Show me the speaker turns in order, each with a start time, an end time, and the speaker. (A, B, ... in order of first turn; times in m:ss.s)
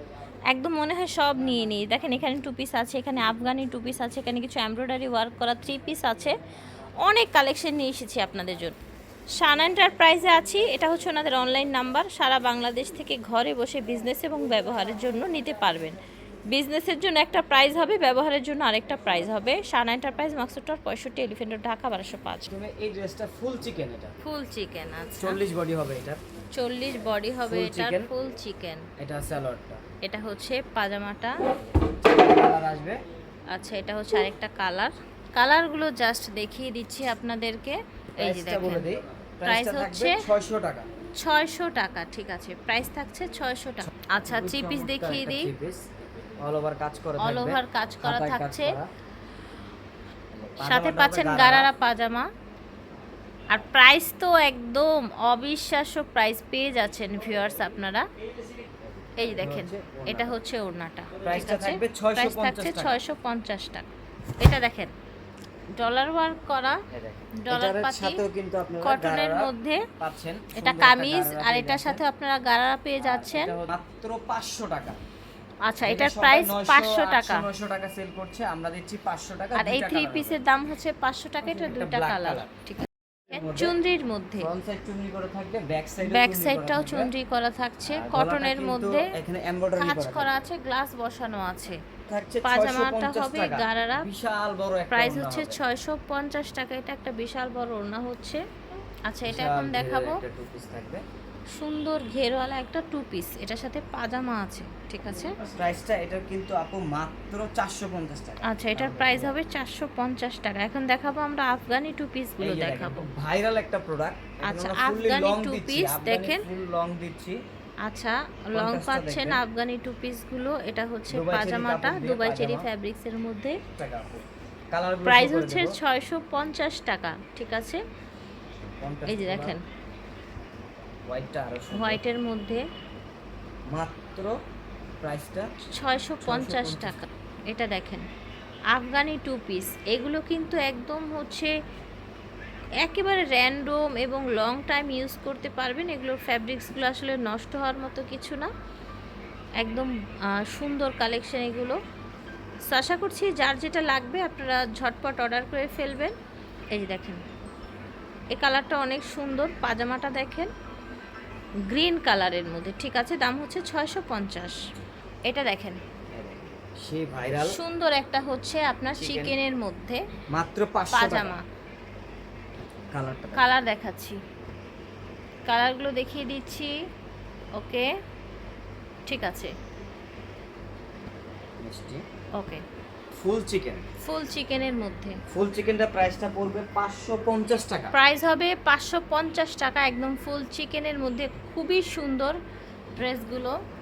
0:00.5-0:06.3 A
0:07.0-0:08.8 A
0:09.4-0:16.0 A
0:16.5-0:22.5 A
0:22.5-0:24.1 B
0:24.2-0:25.4 A
0:25.2-0:26.2 B
0:26.5-0:28.9 A
0:27.5-0:28.1 B
0:29.0-0:29.8 B
0:30.0-0:31.4 A
0:31.8-0:33.0 B
0:33.5-0:38.9 A
0:38.2-0:40.9 B
0:39.4-0:40.2 A
0:41.2-0:45.5 A
0:43.8-0:45.8 B
0:46.4-0:48.9 B
0:47.2-0:48.8 A
0:50.3-0:51.7 B
0:50.6-0:52.3 A
0:53.5-0:58.1 A
0:59.2-1:03.9 A
0:59.2-1:00.4 B
1:01.2-1:03.0 B
1:04.4-1:04.9 A
1:05.8-1:06.8 A
1:06.9-1:12.0 B
1:07.4-1:08.2 A
1:08.8-1:09.9 A
1:10.6-1:13.6 A
1:13.0-1:15.0 B
1:15.7-1:17.5 A
1:15.8-1:20.4 B
1:19.6-1:24.5 A
1:21.4-1:22.5 B
1:23.3-1:23.8 B
1:24.4-1:27.1 B
1:26.0-1:29.1 A
1:27.8-1:30.3 B
1:29.8-1:31.8 A
1:32.1-1:35.6 B
1:32.4-1:34.1 A
1:34.9-1:38.4 A
1:39.1-1:40.2 A
1:39.2-1:41.0 B
1:41.6-1:45.4 A
1:45.4-1:49.4 B
1:48.4-1:53.1 A
1:52.4-1:57.4 B
1:54.4-1:56.4 A
1:57.8-2:03.6 A
1:58.5-1:59.4 B
2:01.1-2:02.7 B
2:03.7-2:05.8 B
2:05.0-2:07.8 A
2:08.8-2:09.6 B
2:09.1-2:09.6 A
2:11.1-2:12.0 B
2:11.7-2:12.6 A
2:13.7-2:14.4 B
2:15.0-2:15.5 B
2:15.7-2:18.1 A
2:16.2-2:17.0 B
2:18.7-2:21.5 A
2:22.8-2:28.5 A
2:29.6-2:31.8 A
2:32.7-2:36.2 A
2:36.7-2:37.2 A
2:38.3-2:40.5 A
2:41.7-2:44.6 A
2:45.3-2:45.8 A
2:46.1-2:47.6 B
2:47.4-2:50.0 A
2:48.9-2:49.4 B
2:50.3-2:51.4 B
2:50.9-2:51.4 A
2:52.9-2:53.4 B
2:53.3-2:54.2 A
2:55.5-2:56.7 A
2:57.6-2:57.9 A
2:59.1-2:59.5 A
3:01.6-3:02.0 B
3:02.4-3:02.6 A
3:03.1-3:03.9 B
3:04.0-3:05.2 A
3:05.3-3:07.9 B
3:07.9-3:12.4 A
3:13.0-3:13.5 A